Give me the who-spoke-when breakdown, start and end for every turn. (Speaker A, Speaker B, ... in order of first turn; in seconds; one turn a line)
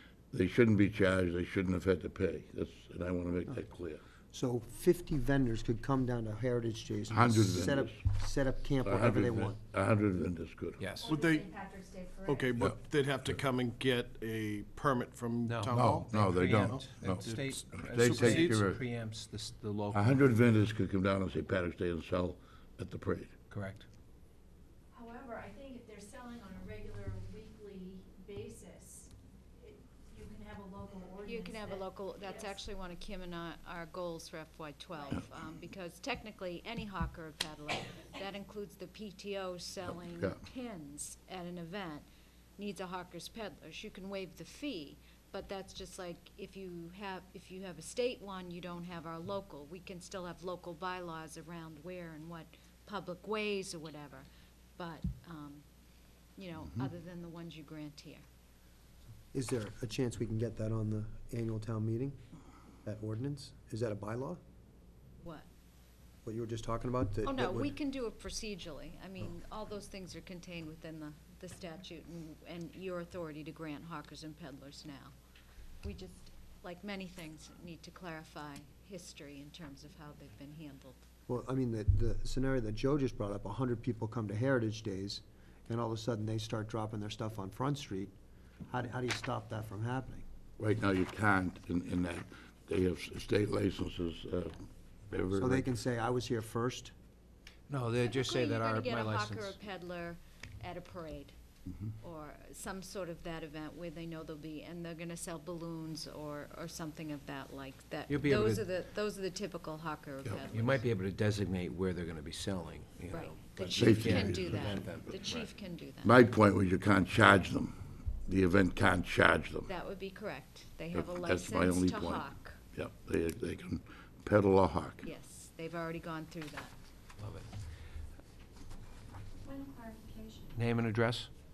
Speaker A: 0.3-4.0
Speaker B: 4.3-9.6
Speaker A: 7.1-8.0
Speaker A: 8.8-10.9
Speaker C: 10.8-11.1
Speaker D: 11.0-12.6
Speaker E: 11.1-11.5
Speaker E: 12.2-18.5
Speaker C: 15.4-20.2
Speaker A: 15.7-18.8
Speaker A: 19.9-23.3
Speaker C: 23.5-23.9
Speaker D: 24.9-32.5
Speaker F: 31.2-55.6
Speaker F: 56.4-58.2
Speaker B: 59.3-62.2
Speaker B: 62.8-64.4
Speaker F: 65.2-65.5
Speaker B: 66.2-67.8
Speaker F: 67.3-75.1
Speaker F: 75.8-81.0
Speaker B: 81.3-88.1
Speaker B: 88.7-90.2
Speaker A: 90.6-95.7
Speaker B: 95.3-96.9
Speaker C: 97.7-99.6
Speaker F: 98.0-101.3
Speaker F: 102.0-110.9
Speaker C: 108.1-108.7
Speaker C: 110.5-115.4
Speaker F: 113.1-116.2
Speaker A: 113.6-114.9
Speaker A: 116.0-119.7
Speaker F: 119.7-122.6
Speaker A: 120.9-125.1
Speaker F: 125.0-126.8
Speaker C: 127.2-127.5
Speaker F: 129.4-130.6
Speaker C: 130.5-131.3